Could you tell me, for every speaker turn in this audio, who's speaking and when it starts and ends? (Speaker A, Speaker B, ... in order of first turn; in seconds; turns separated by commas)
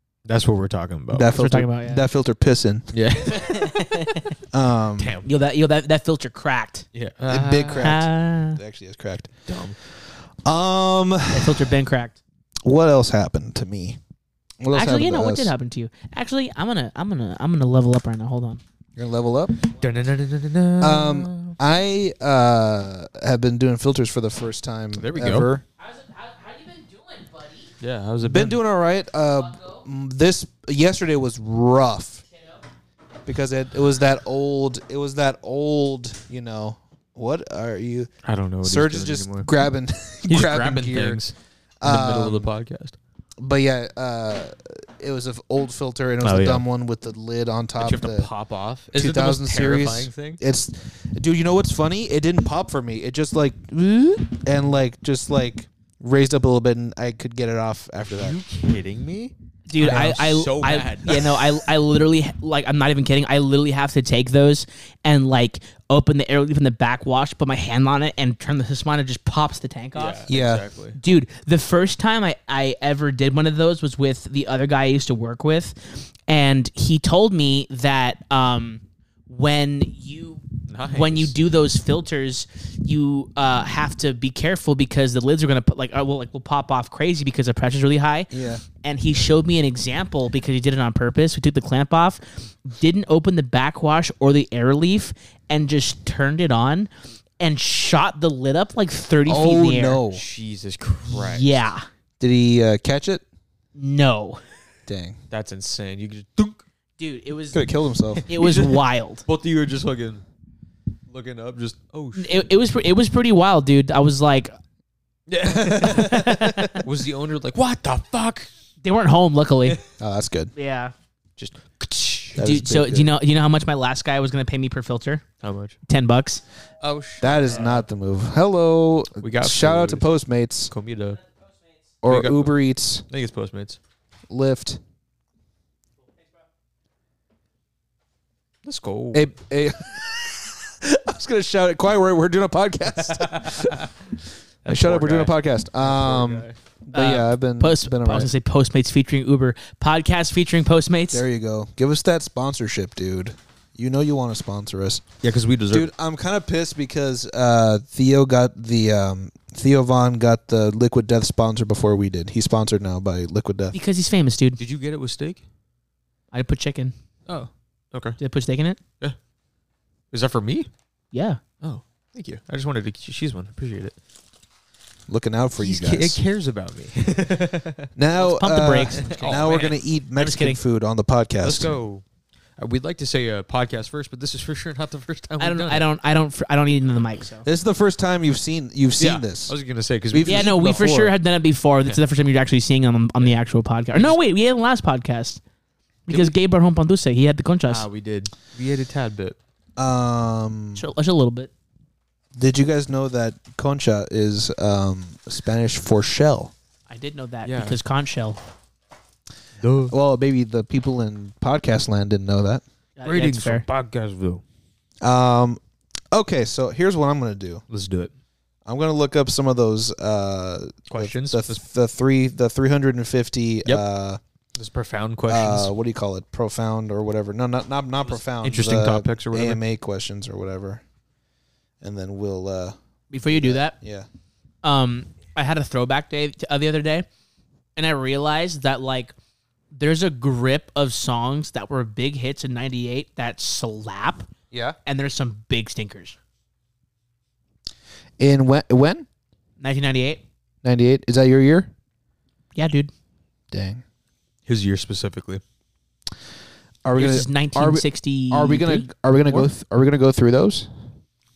Speaker A: 0.2-1.3, Speaker B: 1.1-2.9, Speaker C: 1.3-2.0, Speaker A: 2.9-3.6, Speaker C: 3.3-4.3, Speaker B: 4.5-5.2, Speaker A: 5.0-5.3, Speaker C: 5.2-6.8, Speaker A: 6.9-8.0, Speaker B: 7.3-9.4, Speaker C: 7.8-8.6, Speaker A: 9.5-9.8, Speaker B: 10.4-11.7, Speaker C: 11.3-12.2, Speaker B: 12.6-14.0, Speaker B: 14.6-15.5, Speaker C: 14.7-18.6, Speaker B: 19.0-19.6, Speaker A: 19.7-21.6, Speaker B: 20.8-25.6, Speaker A: 24.9-25.5, Speaker C: 25.8-27.7, Speaker A: 27.8-28.6, Speaker B: 28.2-32.2, Speaker C: 29.4-29.8, Speaker C: 32.3-32.6, Speaker B: 33.2-38.1, Speaker A: 38.2-39.5, Speaker B: 38.6-41.2, Speaker A: 40.3-43.0, Speaker B: 41.8-42.5, Speaker B: 43.4-48.3, Speaker A: 46.2-46.6, Speaker A: 47.8-50.4, Speaker B: 48.9-58.4, Speaker A: 58.1-61.5, Speaker C: 59.7-70.2, Speaker A: 69.9-71.0, Speaker B: 70.3-70.7, Speaker C: 71.0-100.0, Speaker A: 80.7-81.3, Speaker B: 88.3-88.6, Speaker B: 99.2-100.2, Speaker A: 100.1-101.7, Speaker C: 101.1-101.8, Speaker B: 102.2-103.2, Speaker C: 103.7-104.4, Speaker B: 104.9-105.2, Speaker A: 105.3-106.6, Speaker C: 107.0-107.7, Speaker B: 107.5-108.2, Speaker C: 108.2-109.2, Speaker A: 108.3-110.2, Speaker A: 111.1-112.5, Speaker C: 112.2-114.5, Speaker A: 115.3-118.5, Speaker B: 115.5-116.8, Speaker C: 115.8-116.8, Speaker C: 118.8-119.8, Speaker B: 120.0-120.5, Speaker C: 120.5-120.9, Speaker A: 121.4-122.4, Speaker B: 122.3-123.1, Speaker C: 122.4-125.2, Speaker A: 125.4-125.8, Speaker C: 125.9-126.4, Speaker A: 126.8-127.8, Speaker B: 127.2-130.7, Speaker A: 129.2-130.1, Speaker A: 130.7-131.2, Speaker B: 132.0-133.0, Speaker A: 132.0-132.6, Speaker A: 133.1-133.8, Speaker B: 134.3-134.8, Speaker A: 138.6-139.3, Speaker B: 139.1-143.9, Speaker A: 143.0-143.9, Speaker A: 144.6-146.5, Speaker B: 144.7-148.3, Speaker C: 146.9-151.2, Speaker B: 151.1-155.0, Speaker A: 155.2-155.9, Speaker B: 155.7-163.8, Speaker C: 163.7-164.6, Speaker A: 164.6-165.4, Speaker C: 166.3-166.9, Speaker A: 167.3-168.2, Speaker C: 168.2-168.8, Speaker A: 170.1-170.7, Speaker C: 171.1-171.4, Speaker A: 171.6-173.9, Speaker B: 175.1-176.2, Speaker A: 175.6-177.9, Speaker B: 177.9-181.8, Speaker C: 178.1-179.4, Speaker A: 178.9-179.8, Speaker C: 180.2-180.6, Speaker A: 181.4-182.0, Speaker A: 182.6-185.8, Speaker C: 185.4-187.4, Speaker B: 187.4-189.6, Speaker A: 189.0-191.1, Speaker B: 190.1-190.6, Speaker C: 190.2-195.4, Speaker C: 196.1-197.8, Speaker A: 197.7-199.3, Speaker B: 199.8-200.8, Speaker C: 200.8-201.5, Speaker B: 202.3-206.5, Speaker C: 206.9-208.4, Speaker A: 207.4-207.8, Speaker A: 209.6-209.9, Speaker B: 209.9-212.6, Speaker C: 213.0-213.6, Speaker A: 213.0-214.4, Speaker B: 215.0-215.6, Speaker B: 216.1-217.6, Speaker A: 217.7-218.1, Speaker B: 218.7-224.2, Speaker A: 220.9-221.6, Speaker A: 224.6-225.7, Speaker B: 225.3-230.8, Speaker A: 228.0-229.6, Speaker B: 231.8-234.1, Speaker C: 233.1-233.8, Speaker C: 234.6-237.1, Speaker C: 237.8-239.1, Speaker C: 239.7-244.3, Speaker B: 244.5-244.8, Speaker C: 244.8-246.2, Speaker B: 248.2-249.1, Speaker C: 249.6-250.2, Speaker B: 250.6-251.7, Speaker C: 252.5-252.9, Speaker B: 253.5-253.8, Speaker A: 254.5-255.4, Speaker B: 256.8-260.7, Speaker C: 256.9-259.5